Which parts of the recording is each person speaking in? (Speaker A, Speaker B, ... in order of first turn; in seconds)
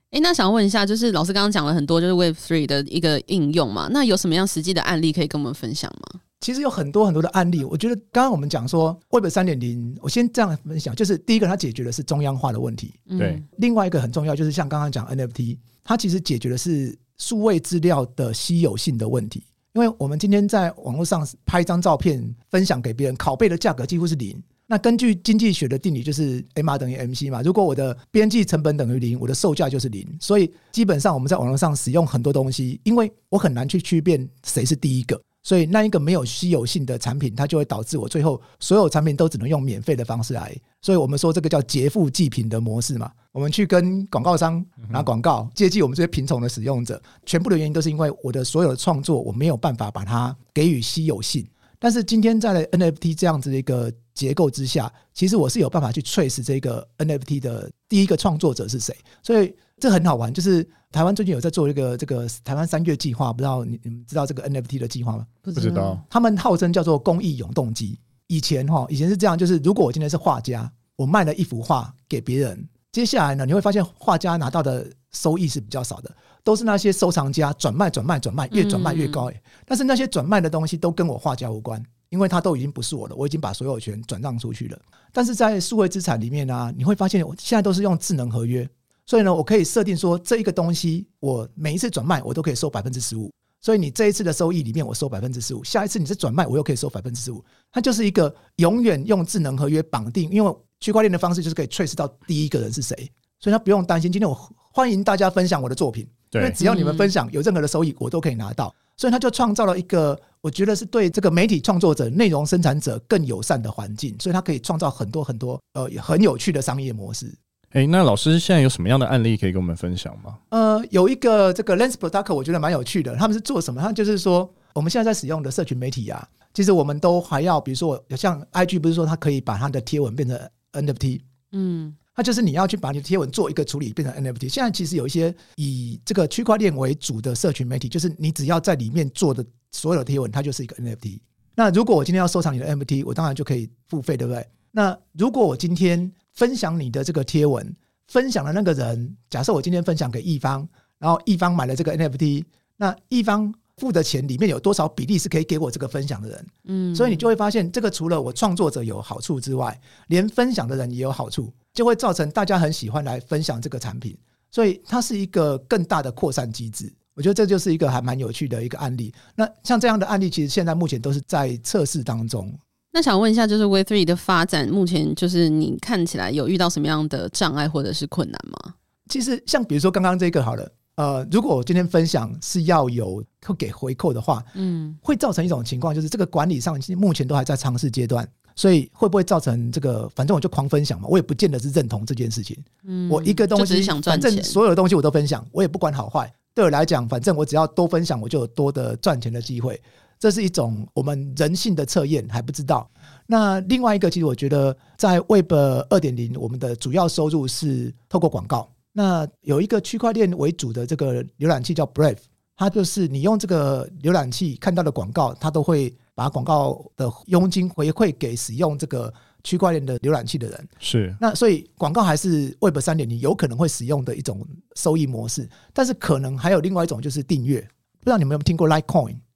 Speaker A: 0.1-6.2, 13.1-13.4, 65.5-66.0, 78.5-79.2, 106.6-107.1, 131.5-132.0, 156.7-157.2, 172.9-178.7, 184.6-185.0, 192.9-194.6
Speaker B: 6.4-65.4, 66.1-117.4, 120.5-131.2, 132.2-172.6, 179.1-184.5, 185.0-229.2
Speaker C: 65.5-66.0, 106.3-106.6, 117.7-120.4, 220.8-221.2